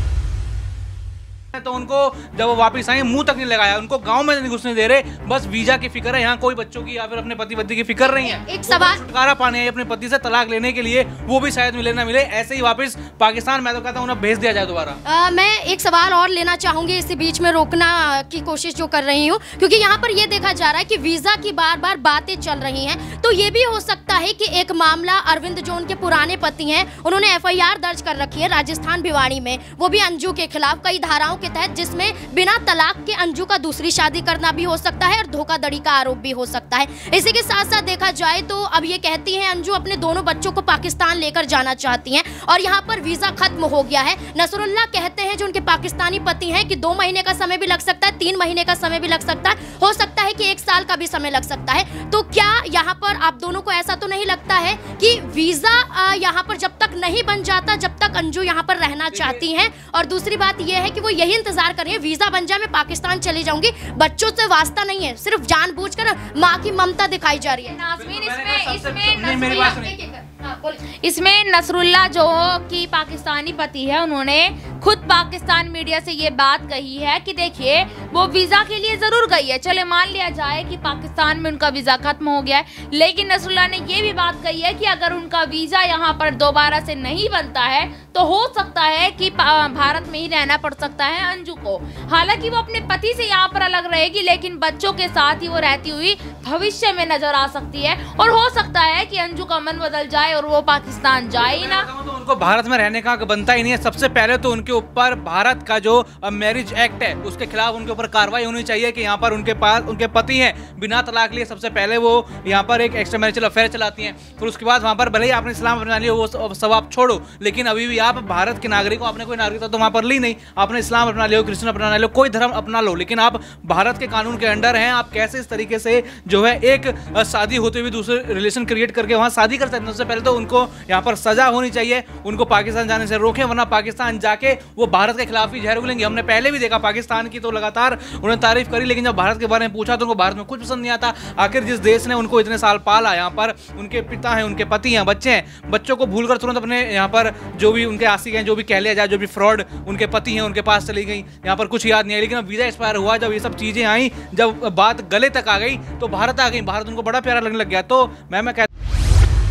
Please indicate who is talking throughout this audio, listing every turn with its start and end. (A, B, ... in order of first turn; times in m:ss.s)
0:01.5-0:15.0 A
0:08.0-0:09.0 B
0:15.0-1:07.7 B
0:59.1-0:59.4 A
1:07.5-1:09.7 C
1:08.0-1:09.9 A
1:09.2-1:10.8 B
1:11.0-1:41.9 C
1:41.4-2:38.7 A